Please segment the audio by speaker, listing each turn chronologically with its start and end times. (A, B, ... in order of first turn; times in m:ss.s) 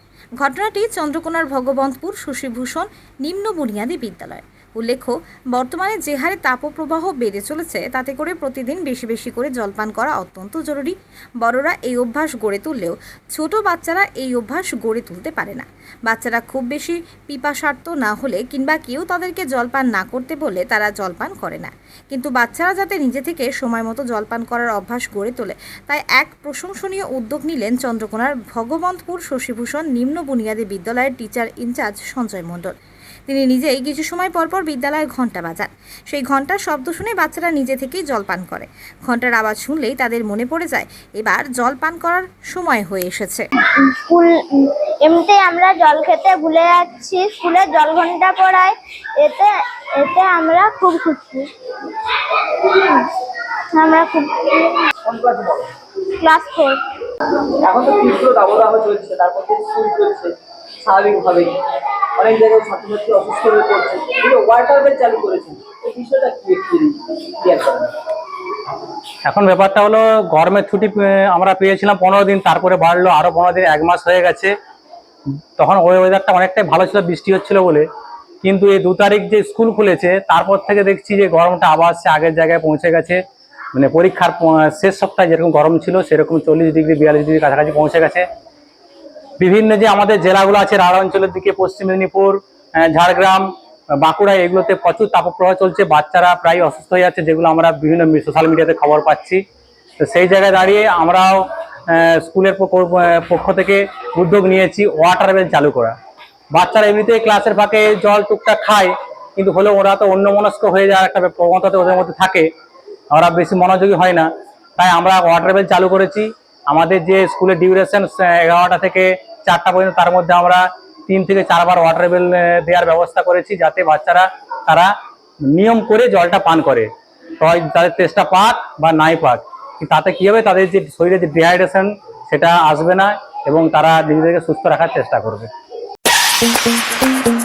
0:00.4-0:32.7 A
0:33.3-0:43.5 A
0:43.8-0:51.5 B
0:52.4-0:53.1 B
0:53.7-0:54.9 B
0:55.0-0:55.7 C
0:56.1-0:56.8 B
0:57.4-1:01.6 C
1:02.1-1:07.9 C
1:09.2-1:14.5 D
1:15.6-1:17.8 D
1:18.4-1:23.2 D
1:23.7-1:28.2 D
1:29.4-1:33.5 D
1:34.0-1:39.4 D
1:40.0-1:46.0 D
1:46.5-1:52.5 D
1:53.1-2:04.9 D
2:05.5-2:06.9 D
2:07.4-2:15.5 D